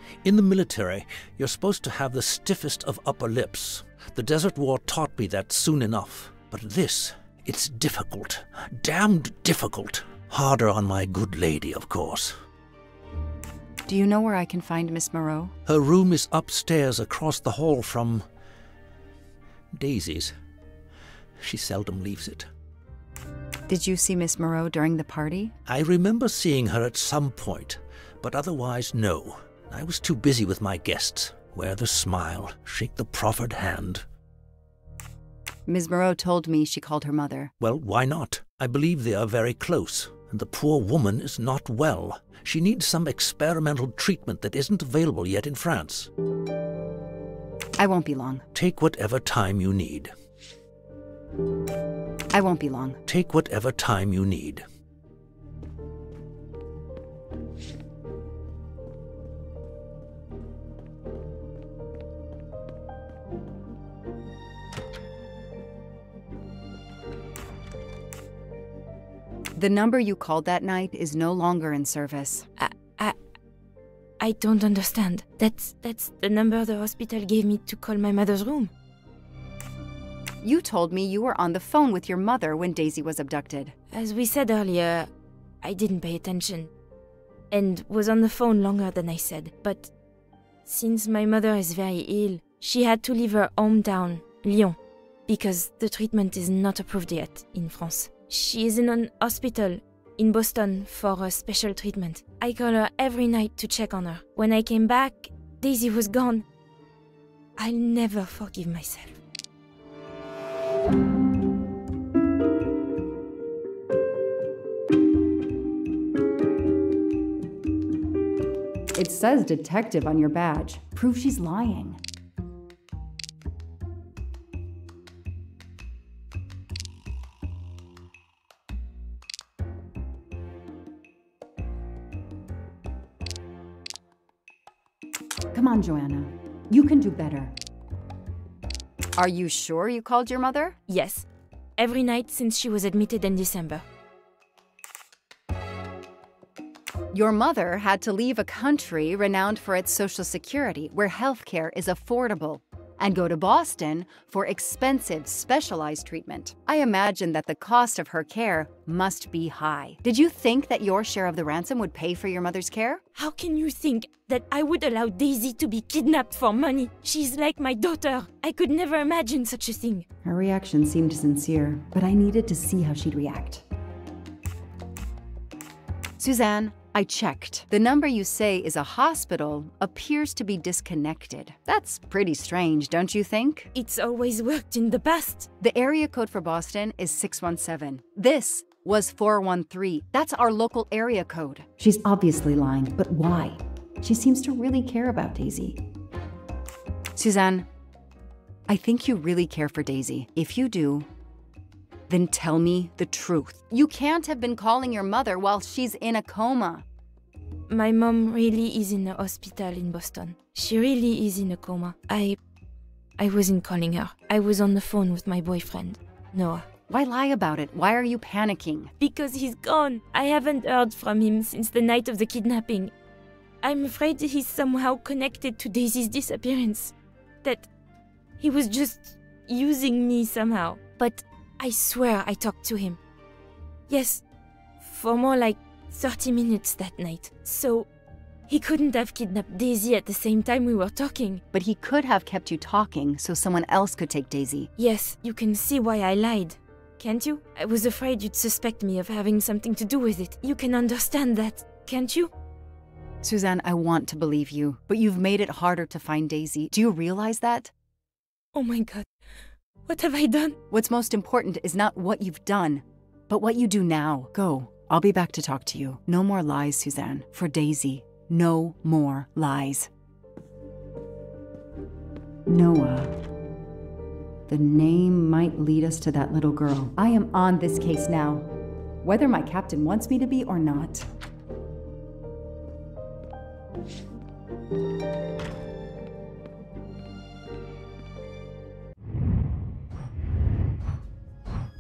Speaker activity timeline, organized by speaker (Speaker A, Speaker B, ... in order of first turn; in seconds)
Speaker A: 0.2-12.3, 15.7-18.2, 19.7-20.3, 21.4-22.5, 25.7-34.0, 37.6-46.1, 48.5-50.1, 53.1-54.6
Speaker B: 13.9-15.5, 23.7-25.5, 35.7-37.5, 47.8-48.5, 52.3-53.0, 69.5-72.5, 80.4-83.8, 119.0-122.0, 135.5-137.6, 139.2-140.8, 147.1-163.0, 170.2-173.6, 176.2-183.7, 185.6-195.8, 197.2-197.7, 198.7-201.1, 202.1-206.8, 216.9-218.9, 241.5-244.7, 253.2-257.7, 260.7-269.9, 272.5-273.2, 274.5-278.5, 279.0-281.1
Speaker C: 72.6-73.2, 74.2-78.7, 83.9-85.1, 85.6-86.7, 87.5-89.9, 90.7-106.5, 107.6-109.2, 140.9-141.3, 141.8-143.8, 163.2-170.1, 183.7-185.5, 207.7-212.4, 213.2-216.7, 219.0-222.9, 223.6-227.7, 228.4-233.0, 233.9-234.2, 234.8-237.9, 238.5-241.4, 244.8-252.3, 258.5-259.1, 259.9-260.6